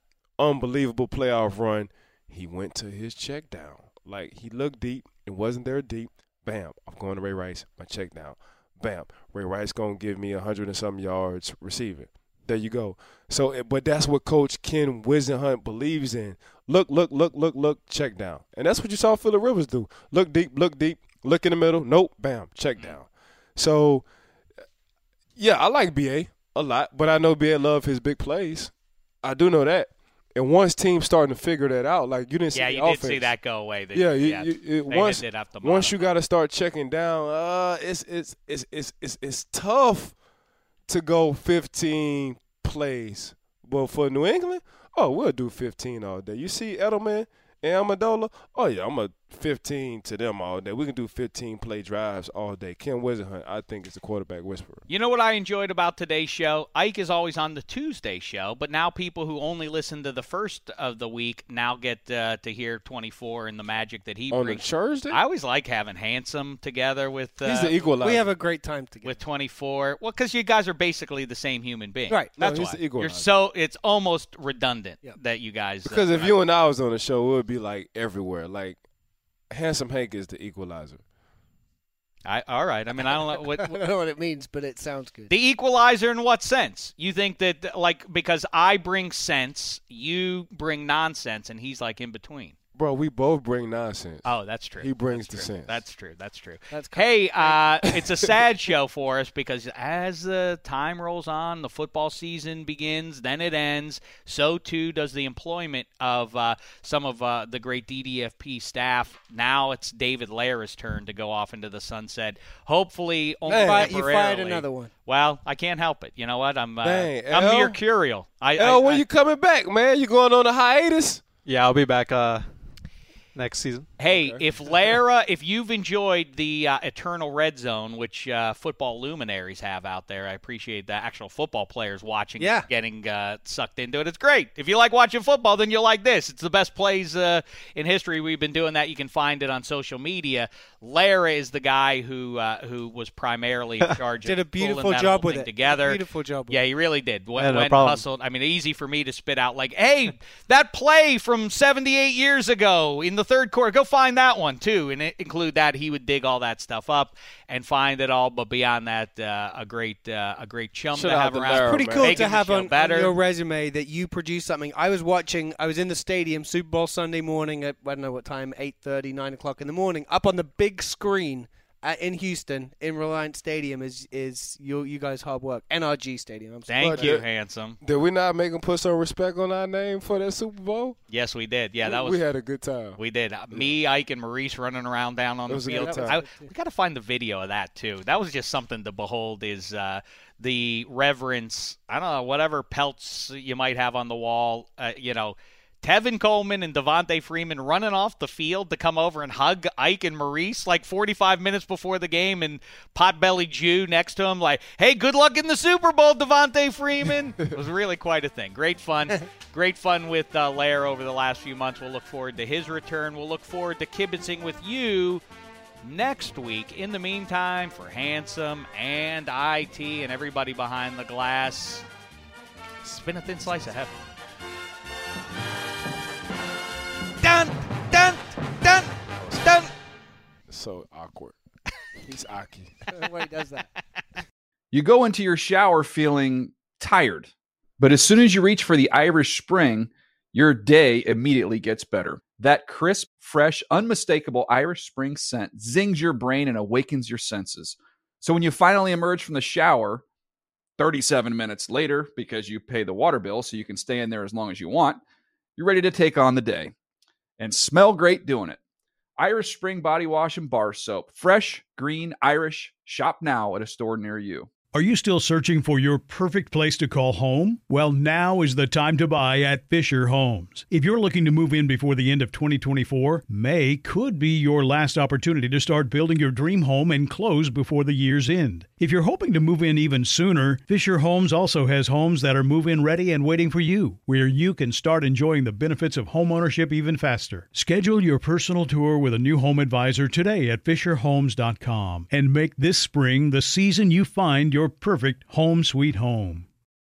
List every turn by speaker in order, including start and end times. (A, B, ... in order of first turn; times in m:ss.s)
0:00.4-0:24.0 A
0:25.4-0:33.3 A
0:32.5-0:36.0 B
0:33.9-0:40.1 A
0:40.9-0:54.8 A
0:54.9-1:07.8 B
1:04.3-1:05.2 A
1:07.4-1:08.3 A
1:08.0-1:09.2 C
1:09.0-1:16.3 B
1:12.4-1:13.3 A
1:15.8-1:18.8 A
1:19.5-1:21.0 A
1:22.2-1:23.8 B
1:23.0-1:25.3 C
1:25.3-1:32.5 B
1:32.7-1:35.8 A
1:34.2-1:59.0 B
1:36.7-1:37.9 C
1:53.4-1:53.9 A
1:53.5-1:54.9 C
1:56.8-1:57.8 A
1:58.6-2:01.2 A
2:01.4-2:02.5 D
2:03.3-2:03.9 D
2:04.0-2:43.1 B
2:04.1-2:04.4 A
2:12.4-2:12.7 C
2:24.2-2:26.6 C
2:27.4-2:28.0 D
2:40.9-2:42.2 A
2:41.6-2:57.2 C
2:56.7-2:57.8 B
2:56.8-2:57.2 A
2:57.8-3:01.0 A
3:01.1-3:02.2 B
3:01.8-3:03.0 A
3:03.0-3:35.2 B
3:03.5-3:03.8 A
3:05.5-3:06.2 A
3:05.7-3:06.5 C
3:35.8-3:41.8 B
3:42.8-3:44.0 B
3:47.2-3:49.7 B
3:49.2-3:49.5 A
3:50.5-3:51.4 A
3:52.0-3:52.7 A
3:52.9-3:53.7 C
3:54.7-4:10.0 E
4:10.8-4:15.0 E
4:15.6-4:16.7 E
4:17.4-4:18.6 E
4:19.2-4:24.5 E
4:24.7-4:56.4 F